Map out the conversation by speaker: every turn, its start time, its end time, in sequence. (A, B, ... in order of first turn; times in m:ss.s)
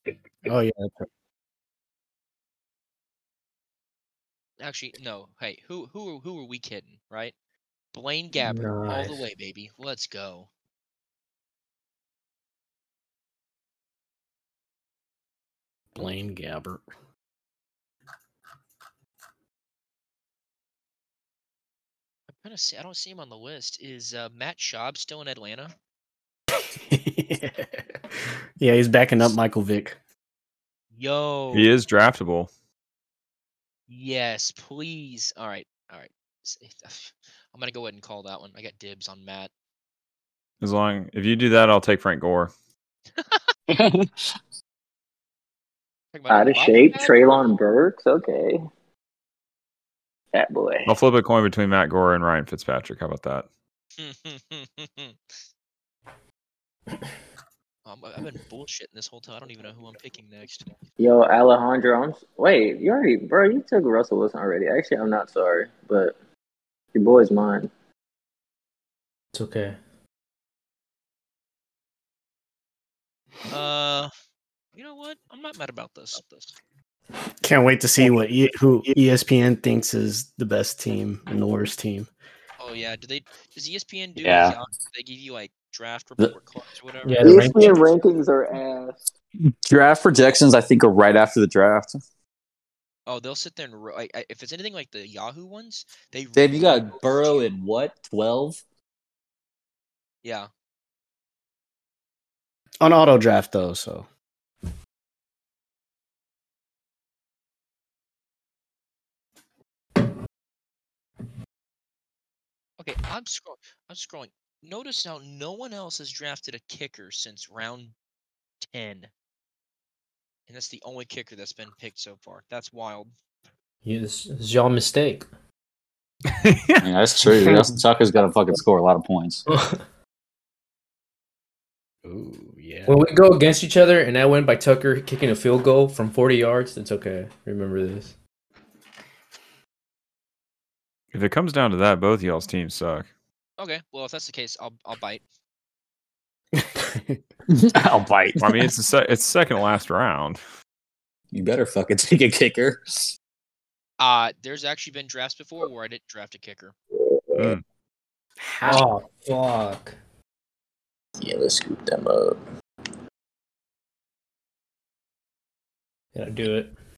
0:00.5-0:01.0 A
0:04.6-0:07.3 B
0:07.9-0:10.5 B
0:08.4-0:09.2 C
0:15.9-0:16.8 A
0:22.3-0:25.7 B
0:26.6-0:27.8 A
0:28.6-0:30.0 A
0:31.0-0:31.7 B
0:31.5-0:32.5 D
0:33.9-0:39.5 B
0:40.6-0:42.5 D
0:43.2-0:43.5 B
0:43.7-0:44.3 E
0:46.1-0:47.5 B
0:46.3-0:48.7 F
0:50.3-0:50.9 F
0:50.9-0:53.5 D
0:54.0-0:55.2 B
0:57.9-1:00.7 B
1:01.0-1:06.2 F
1:06.9-1:07.7 F
1:09.3-1:09.8 C
1:13.5-1:14.1 B
1:14.8-1:16.6 B
1:17.4-1:22.1 A
1:22.6-1:27.4 B
1:24.2-1:24.6 E
1:27.0-1:27.8 C
1:27.2-1:29.1 F
1:29.6-1:32.0 E
1:33.1-1:37.5 B
1:36.4-1:38.6 E
1:40.2-1:40.5 B
1:42.8-1:44.1 A
1:52.8-1:57.9 B
1:58.6-1:59.1 B
2:00.5-2:03.1 B
2:03.8-2:05.3 C
2:06.3-2:06.9 D
2:06.8-2:09.4 E
2:09.5-2:09.8 C
2:12.0-2:12.9 A
2:12.9-2:18.2 C
2:21.1-2:23.1 D
2:23.6-2:25.2 B
2:26.6-2:27.2 A
2:27.5-2:28.7 E
2:28.4-2:30.4 D
2:31.3-2:33.1 E
2:34.0-2:36.8 B
2:37.4-2:37.6 D
2:38.4-2:38.8 A
2:38.6-2:40.0 C
2:41.2-2:42.4 F
2:46.2-2:46.8 C